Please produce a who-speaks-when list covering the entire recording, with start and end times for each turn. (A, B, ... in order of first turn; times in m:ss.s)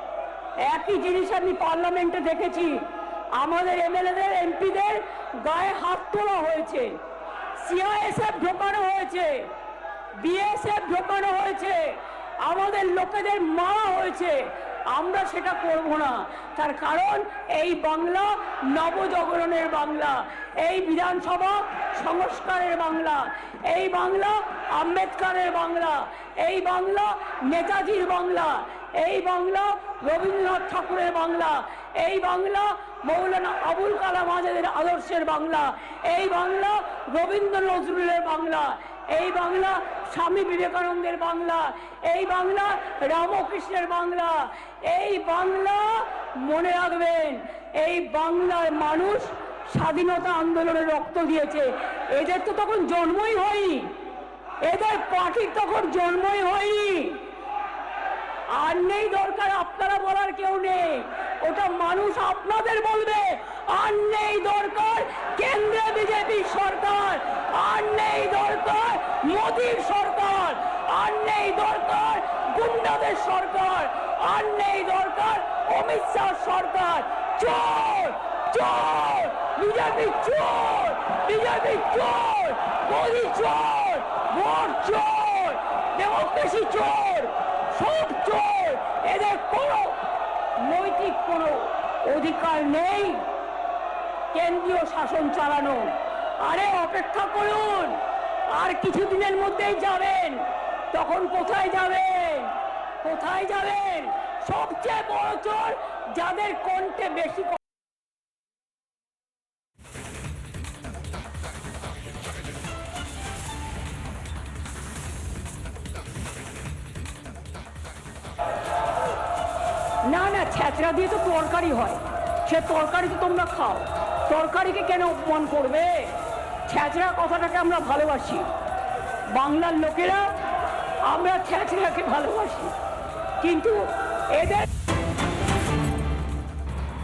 0:00.6-0:06.9 A
0:07.6-0:09.4 A
0:10.2-0:14.4 A
0:14.9-0:54.0 A
0:54.6-0:57.3 A
0:58.5-1:30.0 A
1:30.6-1:33.3 A
1:34.3-1:38.0 A
1:38.5-1:40.4 A
1:40.9-1:47.6 A
2:00.1-2:08.5 A
2:09.3-2:10.3 A
2:11.1-2:12.7 A
2:13.4-2:13.8 A
2:14.3-2:14.7 A